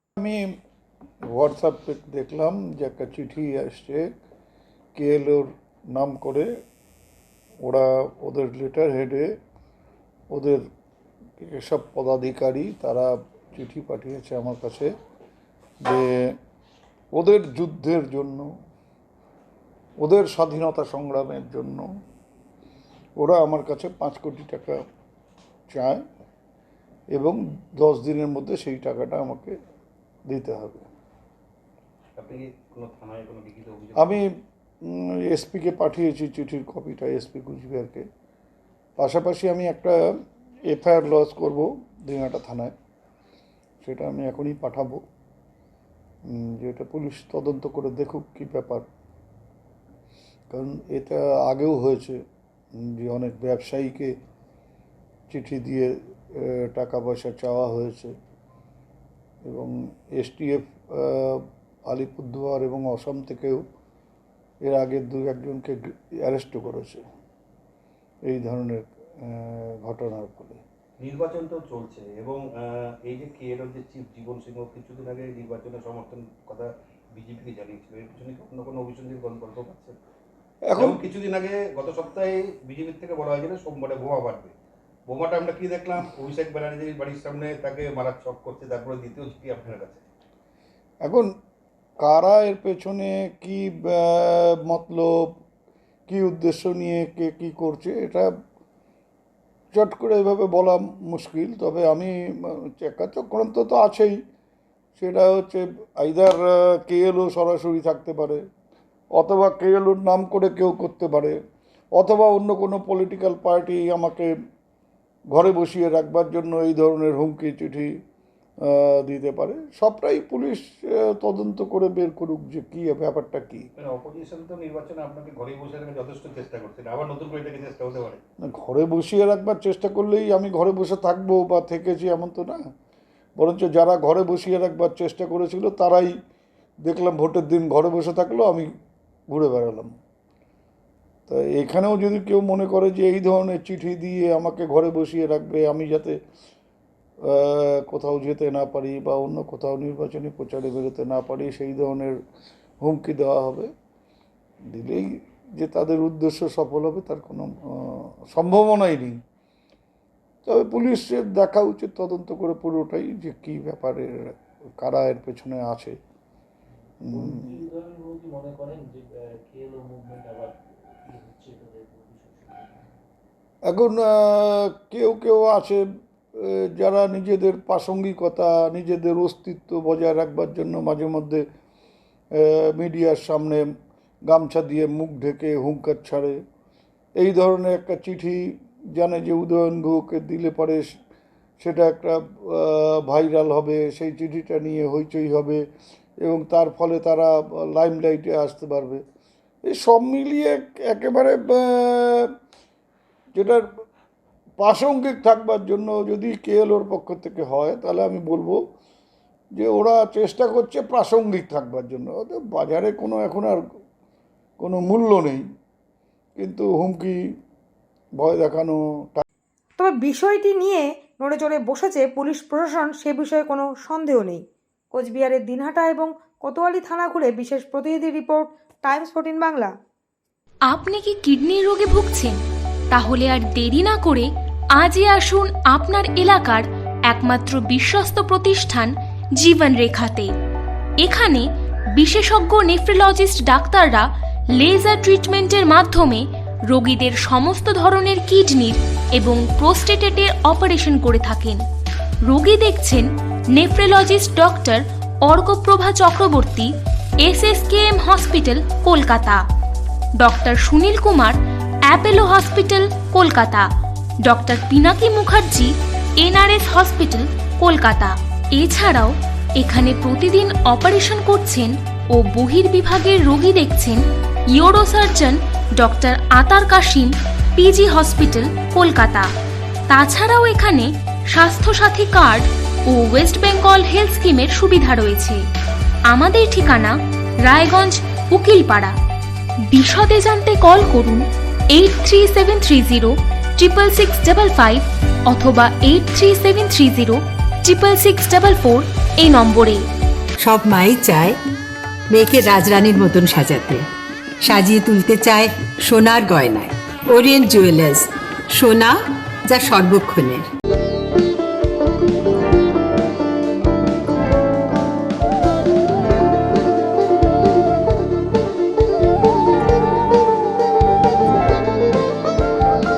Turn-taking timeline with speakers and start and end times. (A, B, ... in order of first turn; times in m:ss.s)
0:00.2-0:00.5 A
0:01.3-0:04.1 A
0:05.0-0:06.5 A
0:07.6-0:09.3 A
0:10.3-0:10.6 A
0:11.4-0:14.9 A
0:15.8-0:16.4 A
0:17.1-0:18.5 A
0:20.0-0:21.9 A
0:23.2-0:24.8 A
0:25.7-0:26.0 A
0:27.1-0:29.5 A
0:30.3-0:30.9 A
0:32.2-0:34.2 B
0:34.0-0:34.2 A
0:34.8-0:38.0 A
0:39.0-0:40.0 A
0:40.6-0:42.7 A
0:43.8-0:45.0 A
0:46.3-0:48.8 A
0:50.5-0:52.2 A
0:52.8-0:54.1 A
0:55.3-0:58.1 A
0:59.5-1:03.6 A
1:04.6-1:07.0 A
1:08.3-1:10.6 A
1:11.0-1:20.0 B
1:20.7-1:21.0 A
1:20.8-1:24.5 B
1:25.1-1:30.0 B
1:31.0-1:31.3 A
1:32.0-1:35.3 A
1:36.1-1:38.3 A
1:39.7-1:44.2 A
1:45.0-1:48.4 A
1:49.1-1:51.4 A
1:52.0-1:54.3 A
1:55.3-1:57.9 A
1:58.6-2:03.7 A
2:03.8-2:08.2 B
2:08.4-2:12.6 A
2:13.4-2:16.1 A
2:16.8-2:18.7 A
2:19.3-2:19.9 A
2:21.3-2:26.2 A
2:27.3-2:32.2 A
2:32.8-2:33.7 A
2:34.7-2:39.2 A
2:40.4-2:46.0 A
2:46.7-2:52.8 C
2:47.1-2:47.4 A
2:53.6-2:55.8 A
2:56.3-3:01.4 A
3:02.3-3:03.6 A
3:04.2-3:06.4 A
3:07.2-3:10.9 A
3:11.6-3:15.6 A
3:16.2-3:19.0 A
3:19.6-3:22.3 A
3:23.4-3:23.6 A
3:24.6-3:28.6 A
3:29.6-3:33.6 A
3:34.6-3:35.4 A
3:36.4-3:37.2 A
3:38.2-3:39.2 A
3:39.8-3:49.7 D
3:50.7-3:52.4 E
3:52.9-4:00.3 E
4:01.0-4:11.6 E
4:12.2-4:16.7 E
4:17.2-4:19.4 E
4:20.2-4:23.7 E
4:24.2-4:39.3 E
4:39.9-4:45.4 E
4:46.1-4:48.9 E
4:49.7-4:59.8 E
5:00.4-5:01.4 F
5:02.1-5:03.9 F
5:04.4-5:10.5 F